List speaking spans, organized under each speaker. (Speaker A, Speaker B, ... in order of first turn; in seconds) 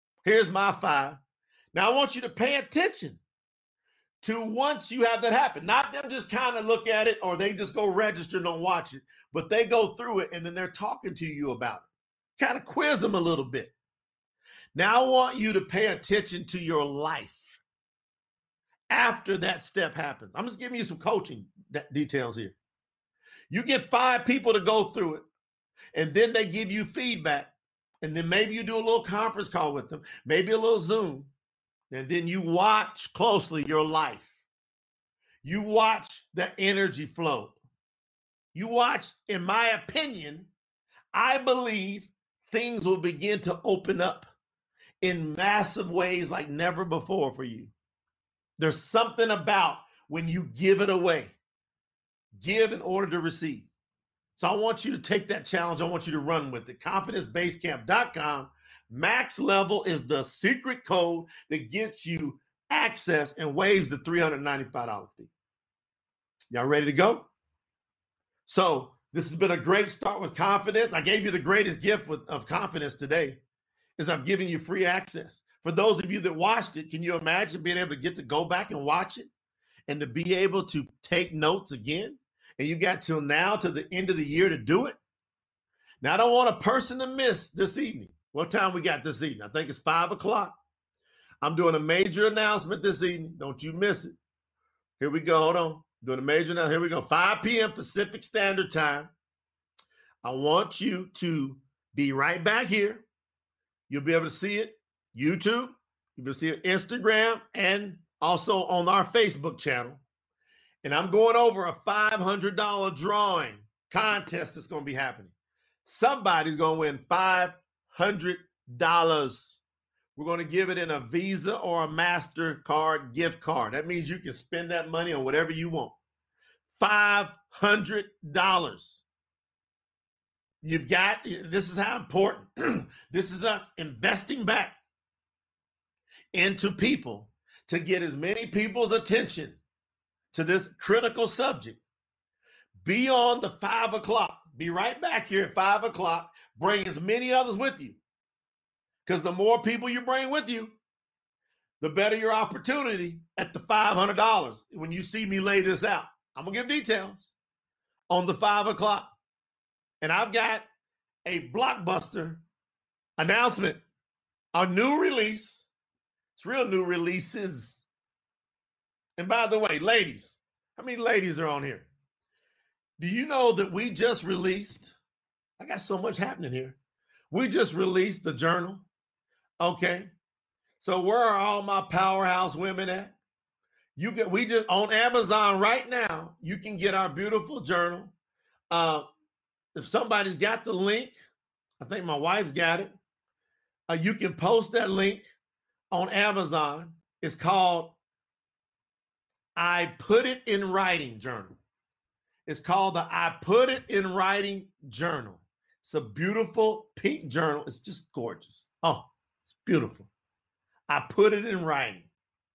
Speaker A: 0.2-1.2, 1.7-3.2, 4.2-13.7, 14.7-17.6, 18.9-22.6, 23.5-25.3, 25.9-31.3, 31.9-34.4, 35.4-37.6, 38.5-40.5, 41.1-44.3, 45.0-47.7, 48.6-51.4, 52.3-53.7, 54.4-65.3, 66.5-67.3, 68.5-73.4, 74.0-79.3, 79.9-85.0, 86.0-90.5, 91.4-94.1, 95.0-99.1, 100.2-103.0, 103.9-110.0, 110.8-115.3, 115.8-119.6, 120.2-125.9, 126.7-129.0, 130.6-134.8, 136.3-139.6, 140.3-141.8, 142.8-148.0, 149.0-150.8, 151.8-157.3, 158.1-159.1, 160.0-160.7, 161.2-162.4, 163.2-163.8, 164.5-165.7, 166.3-167.8, 169.2-171.9, 173.0-174.9, 175.6-176.8, 177.3-178.9, 179.6-180.1, 180.8-183.2, 183.9-188.1, 188.7-189.0, 189.7-191.2, 191.8-192.9, 193.9-195.3, 195.9-198.0, 199.6-201.6, 202.4-210.1, 210.9-212.1